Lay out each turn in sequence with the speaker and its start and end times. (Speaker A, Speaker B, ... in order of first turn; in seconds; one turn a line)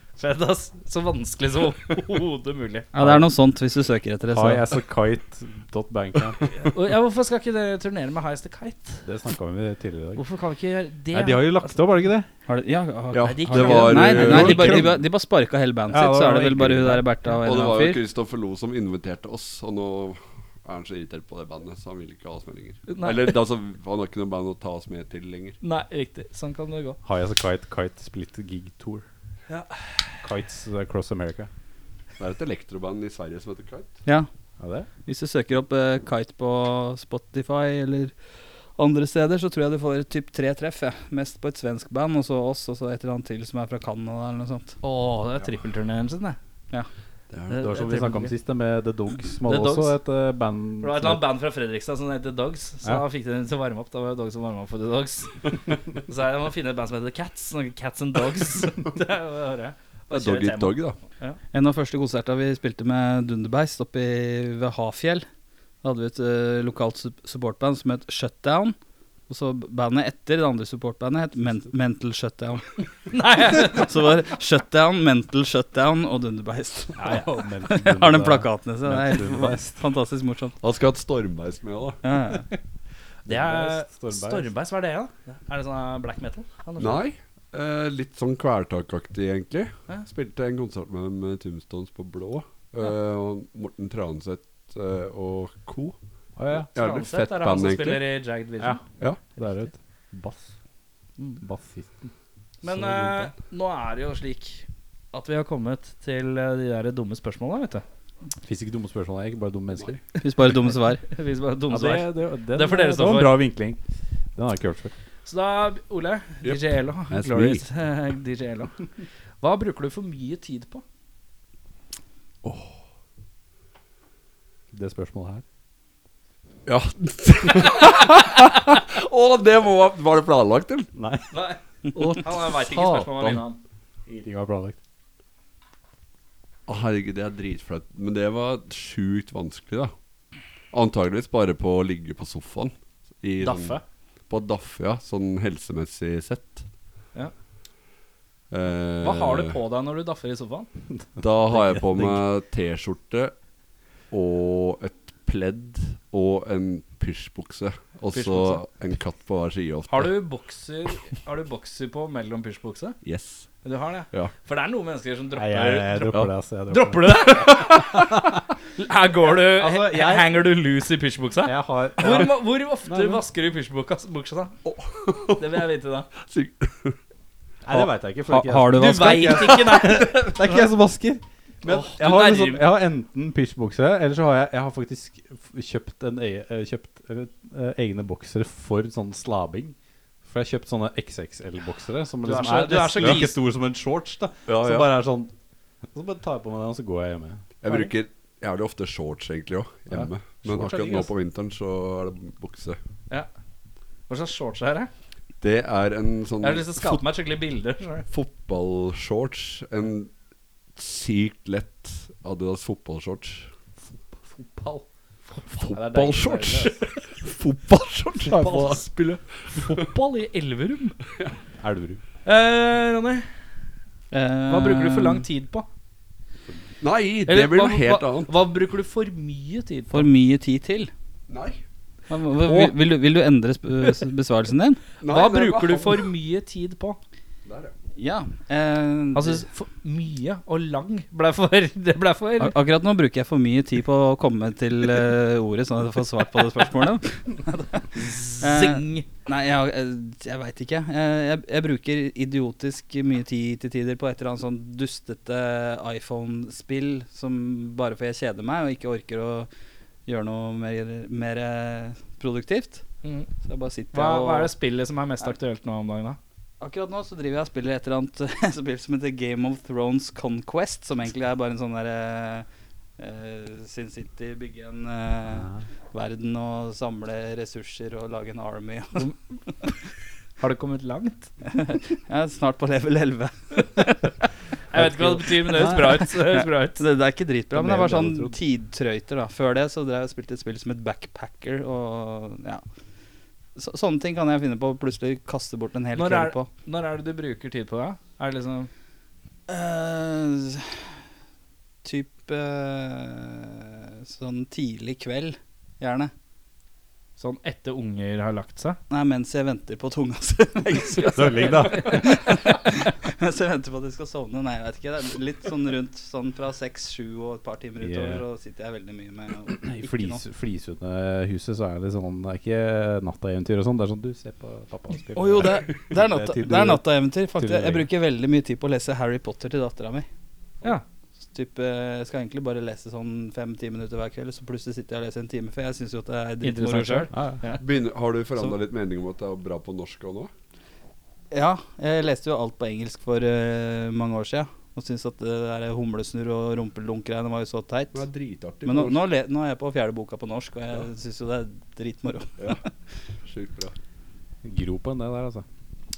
Speaker A: 0.2-2.9
Speaker B: 2.9-4.7
Speaker C: 3.0-3.3
Speaker C: 4.3-6.5
Speaker A: 6.6-9.1
Speaker C: 9.1-10.2
Speaker A: 10.2-11.9
Speaker C: 11.1-12.3
Speaker B: 12.5-18.0
Speaker D: 13.1-14.9
Speaker A: 13.2-15.0
Speaker C: 14.1-15.0
Speaker C: 15.9-17.1
Speaker D: 17.4-25.6
Speaker A: 22.9-23.4
Speaker A: 25.6-27.0
Speaker C: 27.0-29.1
Speaker A: 29.5-29.9
Speaker C: 30.2-31.5
Speaker D: 32.2-33.9
Speaker C: 34.6-34.9
Speaker B: 35.1-38.2
Speaker B: 38.8-44.8
Speaker A: 44.8-46.4
Speaker D: 47.3-47.7
Speaker A: 47.5-48.3
Speaker C: 47.5-51.2
Speaker A: 49.5-50.0
Speaker A: 50.8-61.4
Speaker D: 60.1-61.0
Speaker B: 61.5-65.3
Speaker B: 65.8-68.8
Speaker B: 69.3-72.8
Speaker A: 73.1-74.0
Speaker B: 73.5-80.6
Speaker C: 77.0-79.9
Speaker D: 80.6-82.0
Speaker B: 82.0-82.5
Speaker C: 83.3-84.5
Speaker A: 83.3-87.0
Speaker D: 86.8-96.0
Speaker C: 96.4-96.7
Speaker D: 96.6-98.0
Speaker A: 96.8-98.8
Speaker C: 99.4-100.5
Speaker C: 101.4-102.1
Speaker A: 102.6-107.8
Speaker C: 102.7-103.2
Speaker C: 108.4-110.0
Speaker B: 110.2-111.0
Speaker A: 111.0-113.4
Speaker C: 111.7-113.8
Speaker C: 114.4-114.9
Speaker A: 115.3-118.7
Speaker D: 116.4-117.6
Speaker A: 119.4-120.8
Speaker C: 124.7-125.4
Speaker D: 126.7-130.9
Speaker C: 130.9-131.3
Speaker A: 131.3-133.6
Speaker D: 132.4-133.4
Speaker C: 134.1-134.8
Speaker D: 136.7-139.9
Speaker D: 140.7-143.8
Speaker A: 143.4-143.8
Speaker D: 144.3-146.7
Speaker D: 148.5-149.6
Speaker A: 149.0-150.7
Speaker C: 150.9-152.2
Speaker D: 151.2-153.3
Speaker D: 154.1-160.1
Speaker A: 158.1-158.6
Speaker A: 159.9-163.0
Speaker D: 163.0-163.5
Speaker A: 163.6-168.2
Speaker C: 165.4-168.4
Speaker A: 168.8-174.6
Speaker C: 169.6-170.5
Speaker C: 171.4-173.2
Speaker D: 174.7-175.5
Speaker A: 175.4-176.1
Speaker D: 176.2-177.0
Speaker C: 177.6-195.3
Speaker B: 177.7-179.8
Speaker A: 178.7-180.7
Speaker A: 181.6-182.7
Speaker A: 192.2-193.4
Speaker D: 194.5-194.9
Speaker C: 195.9-197.4
Speaker D: 197.6-202.8
Speaker A: 197.7-197.9
Speaker C: 199.9-201.1
Speaker A: 204.1-204.9
Speaker D: 205.4-207.0
Speaker A: 206.4-208.1
Speaker D: 208.1-210.1
Speaker D: 210.8-213.5
Speaker A: 214.3-216.8
Speaker D: 215.5-219.9
Speaker C: 215.9-216.7
Speaker A: 218.2-218.9
Speaker A: 219.5-221.0
Speaker C: 221.6-222.0
Speaker A: 222.2-223.3
Speaker B: 224.1-225.2
Speaker A: 224.5-225.7
Speaker D: 226.8-228.3
Speaker A: 227.3-230.1
Speaker B: 229.9-230.9
Speaker D: 231.3-231.6
Speaker B: 232.1-234.8
Speaker A: 232.5-232.7
Speaker D: 235.0-236.1
Speaker A: 235.1-237.0
Speaker D: 237.4-237.7
Speaker B: 238.0-239.4
Speaker A: 239.1-242.5
Speaker B: 242.4-259.5
Speaker A: 247.9-249.1
Speaker B: 260.1-262.8
Speaker A: 263.0-263.3
Speaker B: 263.4-264.5
Speaker A: 263.9-266.2
Speaker B: 266.6-272.5
Speaker B: 273.0-279.1
Speaker C: 275.4-275.6
Speaker A: 279.0-279.8
Speaker A: 280.4-281.3
Speaker B: 281.5-284.1
Speaker A: 284.7-286.8
Speaker C: 284.8-286.1
Speaker B: 285.1-292.6
Speaker C: 287.5-288.4
Speaker B: 293.6-296.5
Speaker A: 295.9-298.7
Speaker B: 299.5-300.9
Speaker B: 301.8-306.1
Speaker A: 307.2-308.8
Speaker B: 308.9-320.2
Speaker C: 311.0-312.4
Speaker A: 311.4-312.1
Speaker C: 317.8-318.2
Speaker C: 319.6-327.9
Speaker B: 325.1-330.1
Speaker B: 331.3-337.1
Speaker A: 336.4-337.6
Speaker C: 337.1-337.4
Speaker D: 337.6-340.3
Speaker B: 341.3-348.1
Speaker D: 347.9-349.1
Speaker B: 348.7-352.7
Speaker D: 353.3-353.8
Speaker C: 354.4-355.4